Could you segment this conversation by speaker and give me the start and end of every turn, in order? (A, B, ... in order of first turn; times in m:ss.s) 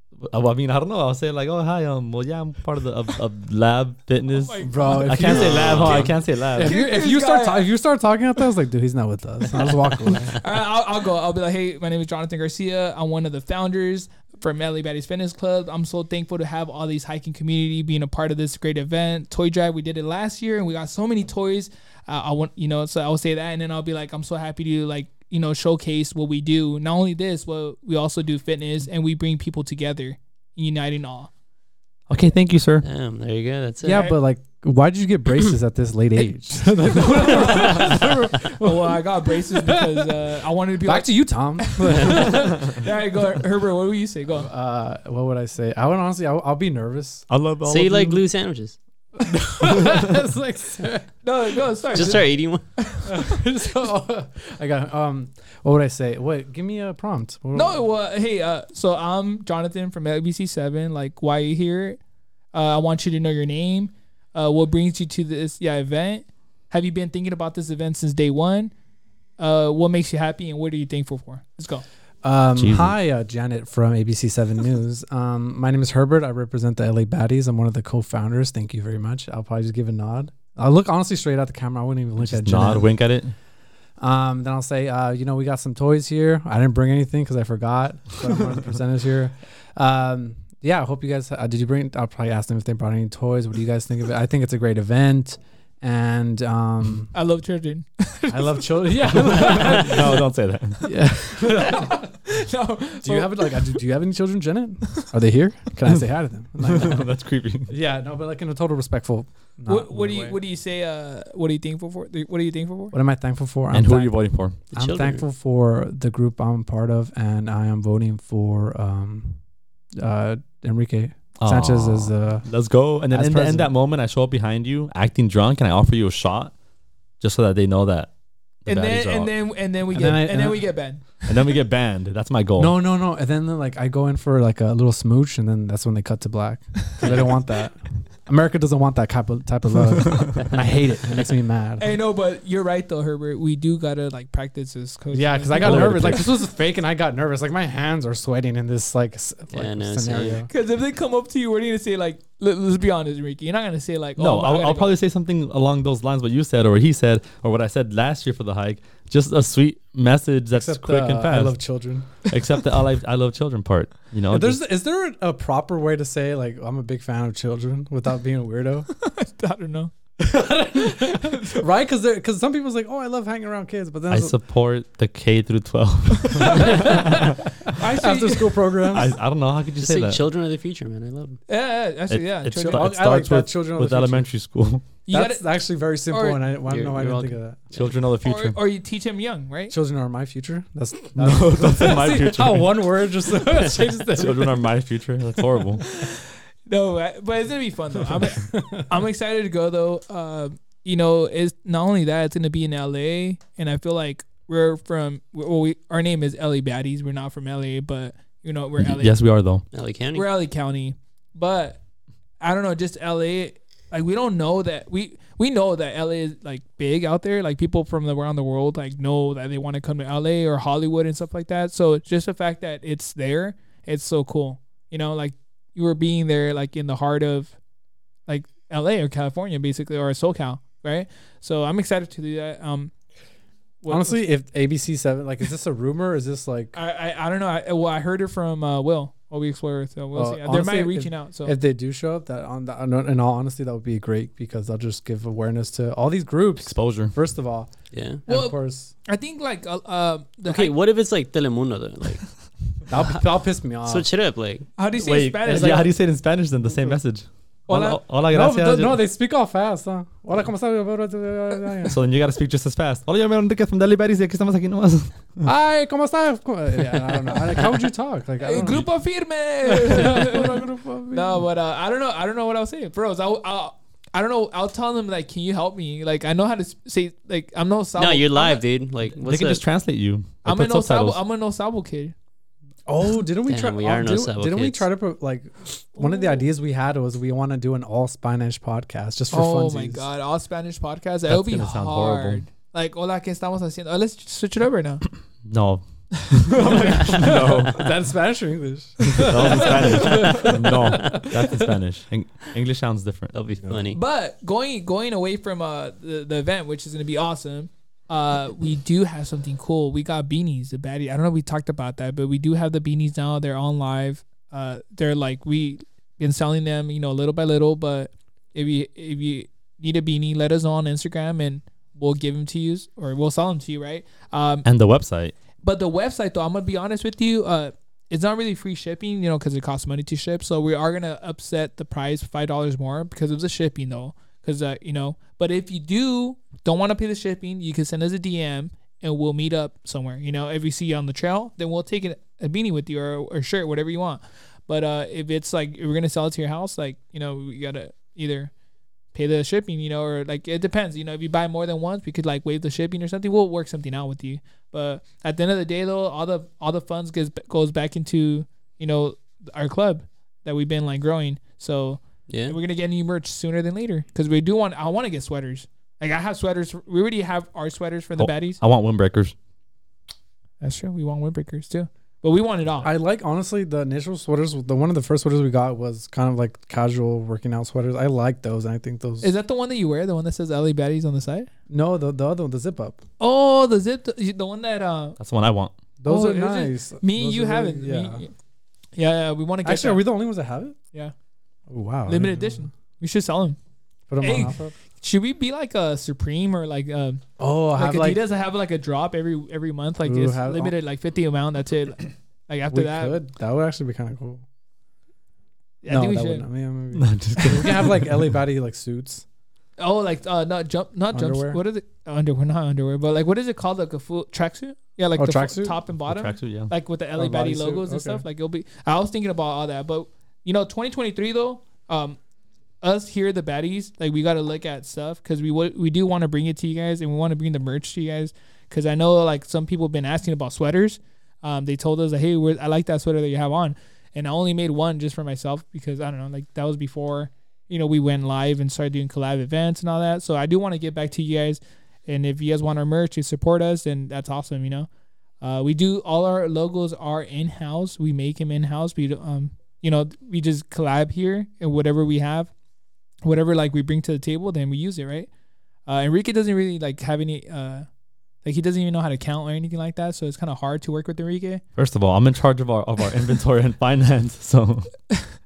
0:00.2-0:06.7 A
0:04.3-0:05.2 B
0:04.6-0:10.4 C
0:05.3-0:06.1 D
0:06.6-0:07.7 B
0:10.3-0:31.3 B
0:32.1-0:32.8 A
0:32.8-0:34.1 D
0:33.8-0:40.1 C
0:33.9-0:34.2 B
0:36.9-0:44.5 B
0:40.8-0:42.8 C
0:44.3-0:47.2 C
0:47.3-0:48.2 A
0:47.6-0:48.8 D
0:49.2-0:52.1 C
0:49.6-0:50.0 A
0:51.2-0:53.4 B
0:51.9-0:52.6 D
0:53.0-0:57.8 C
0:57.5-1:02.0 B
1:02.5-1:08.7 B
1:09.4-1:11.8 B
1:12.2-1:22.9 C
1:12.6-1:12.9 A
1:22.2-1:23.3 A
1:24.0-1:37.1 C
1:37.1-1:40.1 B
1:38.3-1:40.2 C
1:39.1-1:40.9 A
1:40.8-1:42.1 C
1:41.4-1:43.8 B
1:43.0-1:47.1 C
1:46.6-1:47.7 A
1:47.7-1:50.4 C
1:49.7-1:52.9 B
1:52.9-1:59.4 C
1:53.7-1:54.6 A
1:54.7-1:55.2 D
2:00.0-2:02.5 C
2:01.4-2:06.5 A
2:03.1-2:03.7 C
2:07.2-2:08.1 A
2:08.6-2:09.3 A
2:08.7-2:11.3 B
2:09.9-2:10.6 C
2:11.2-2:12.7 A
2:12.6-2:22.0 C
2:21.8-2:26.2 B
2:25.1-2:30.5 C
2:25.6-2:26.2 A
2:29.5-2:30.4 D
2:30.5-2:34.9 B
2:34.2-2:41.6 A
2:40.5-2:42.1 C
2:42.2-2:44.6 A
2:44.3-2:48.9 C
2:48.9-2:49.9 B
2:50.2-2:54.3 C
2:50.8-2:51.6 B
2:54.1-2:57.4 A
2:56.4-2:57.0 B
2:56.4-2:57.3 C
2:57.7-2:58.9 B
2:57.8-2:59.2 C
2:58.9-3:00.2 A
2:59.8-3:01.4 D
3:01.5-3:02.9 B
3:02.1-3:04.8 A
3:02.6-3:04.3 C
3:05.0-3:05.4 B
3:05.1-3:07.6 C
3:06.1-3:06.4 B
3:06.6-3:07.9 D
3:07.7-3:08.6 A
3:08.2-3:09.7 B
3:09.7-3:14.7 C
3:11.2-3:12.7 A
3:14.1-3:15.8 A
3:15.8-3:29.1 B
3:18.2-3:18.9 C
3:28.8-3:29.6 A
3:29.7-3:30.2 D
3:30.1-3:31.8 B
3:32.4-3:47.6 B
3:48.3-3:52.9 B
3:53.8-3:54.2 B
3:53.9-3:56.7 C
3:56.7-4:01.6 B
4:00.1-4:07.7 C
4:06.6-4:07.1 A
4:07.9-4:08.2 D
4:08.2-4:08.9 C
4:08.3-4:08.6 B
4:09.1-4:10.8 B
4:10.4-4:12.2 D
4:12.9-4:14.1 C
4:13.8-4:14.7 D
4:14.8-4:15.9 B
4:15.0-4:19.0 A
4:15.4-4:15.9 C
4:17.7-4:18.0 B
4:18.3-4:22.0 C
4:21.8-4:25.4 A
4:25.4-4:28.8 C
4:28.4-4:38.6 B
4:29.6-4:31.4 C
4:38.0-4:39.6 D
4:39.2-4:41.2 A
4:40.4-4:42.1 B
4:42.9-4:50.1 C
4:43.5-4:44.8 D
4:46.0-4:46.3 B
4:49.3-4:55.0 B
4:51.3-4:52.4 A
4:55.4-4:57.9 A
4:56.4-4:57.4 B
4:56.6-5:01.6 C
4:59.0-5:03.4 A
5:00.1-5:01.2 D
5:03.3-5:04.0 D
5:03.9-5:24.6 B
5:24.6-5:25.3 A
5:25.6-5:48.5 B
5:49.1-6:08.6 B
6:02.3-6:02.6 D
6:08.2-6:09.3 A
6:10.6-6:12.9 B
6:12.8-6:19.3 C
6:19.2-6:21.5 B
6:21.7-6:23.0 C
6:23.2-6:25.2 B
6:25.2-6:25.7 A
6:26.0-6:28.2 C
6:26.0-6:28.3 B
6:29.0-6:30.0 B
6:29.6-6:30.8 C
6:31.7-6:32.6 C
6:32.1-6:33.6 B
6:34.1-6:34.7 C
6:34.2-6:37.2 B
6:37.4-6:38.2 C
6:37.7-6:43.2 B
6:40.0-6:40.7 C
6:42.7-6:44.4 C
6:45.8-6:46.4 B
6:45.9-6:49.2 C
6:46.9-6:48.2 A
6:49.8-7:02.2 B
6:51.1-6:51.6 C
6:55.2-6:55.8 C
6:56.1-6:56.7 A
6:57.2-6:58.2 C
7:02.8-7:24.9 B
7:25.4-7:32.5 B
7:33.2-7:35.3 B
7:35.8-7:37.8 B
7:38.4-7:41.6 B
7:41.8-7:45.0 A